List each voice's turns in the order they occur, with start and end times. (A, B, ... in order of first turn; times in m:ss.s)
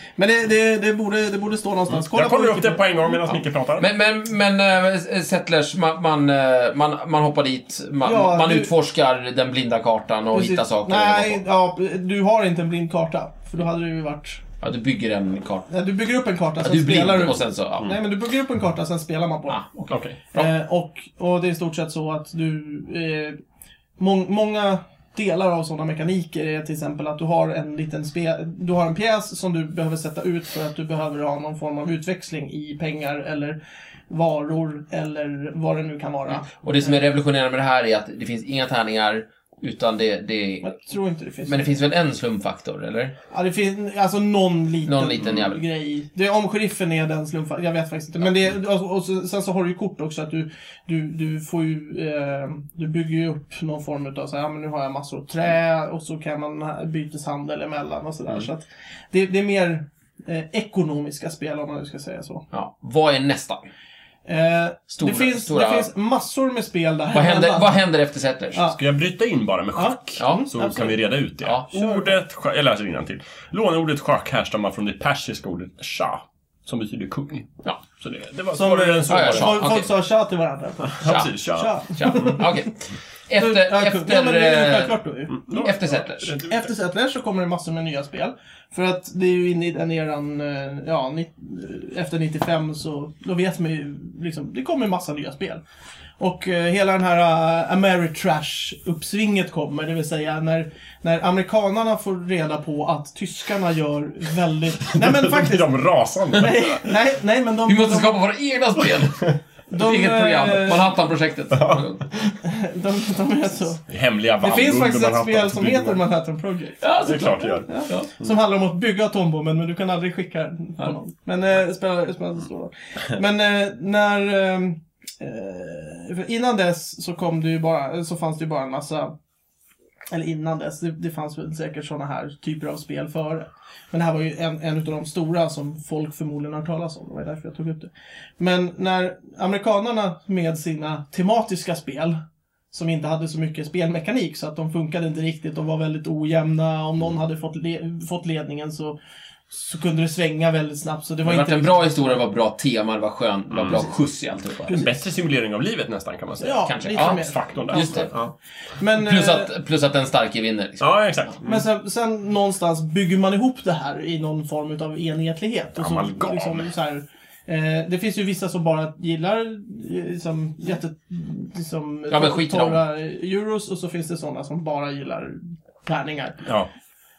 0:00.2-0:03.3 A
0:01.9-0:03.9 B
0:03.8-0:11.4 C
0:08.0-0:08.7 A
0:10.3-0:14.4 A
0:14.6-0:15.7 C
0:15.7-0:19.6 A
0:16.6-0:18.0 C
0:19.5-0:20.5 C
0:19.9-0:20.2 B
0:20.3-0:23.4 A
0:24.0-0:37.0 A
0:36.3-0:40.8 C
0:40.6-0:41.6 A
0:41.4-0:43.1 C
0:43.3-1:02.4 A
0:44.8-0:45.6 C
1:02.5-1:03.6 C
1:04.2-1:07.8 A
1:05.0-1:05.9 C
1:07.1-1:08.6 C
1:08.5-1:08.8 A
1:08.7-1:19.6 B
1:09.7-1:11.0 A
1:10.2-1:10.5 C
1:11.4-1:11.7 C
1:11.7-1:12.2 A
1:18.5-1:22.6 A
1:19.1-1:19.9 C
1:20.8-1:22.4 B
1:21.0-1:26.4 C
1:23.4-1:25.4 A
1:25.3-1:26.7 B
1:26.5-1:35.6 A
1:36.2-1:45.7 A
1:44.8-1:47.0 B
1:46.3-1:48.2 A
1:47.6-1:52.1 C
1:49.7-1:50.9 A
1:51.5-1:51.9 B
1:52.4-1:53.8 A
1:53.9-1:56.0 B
1:54.4-1:56.9 A
1:56.8-1:58.1 C
1:57.0-1:58.3 B
1:57.6-2:09.1 A
2:10.1-2:22.2 A
2:22.7-2:29.0 A
2:29.5-2:32.0 A
2:31.2-2:34.9 C
2:33.5-2:33.8 B
2:34.7-2:38.3 B
2:36.4-2:38.2 A
2:36.6-2:38.1 C
2:38.8-2:39.5 A
2:38.9-2:40.8 C
2:40.8-2:41.6 B
2:41.4-2:56.4 A
2:45.7-2:46.7 B
2:52.1-2:52.8 C
2:56.4-2:56.7 B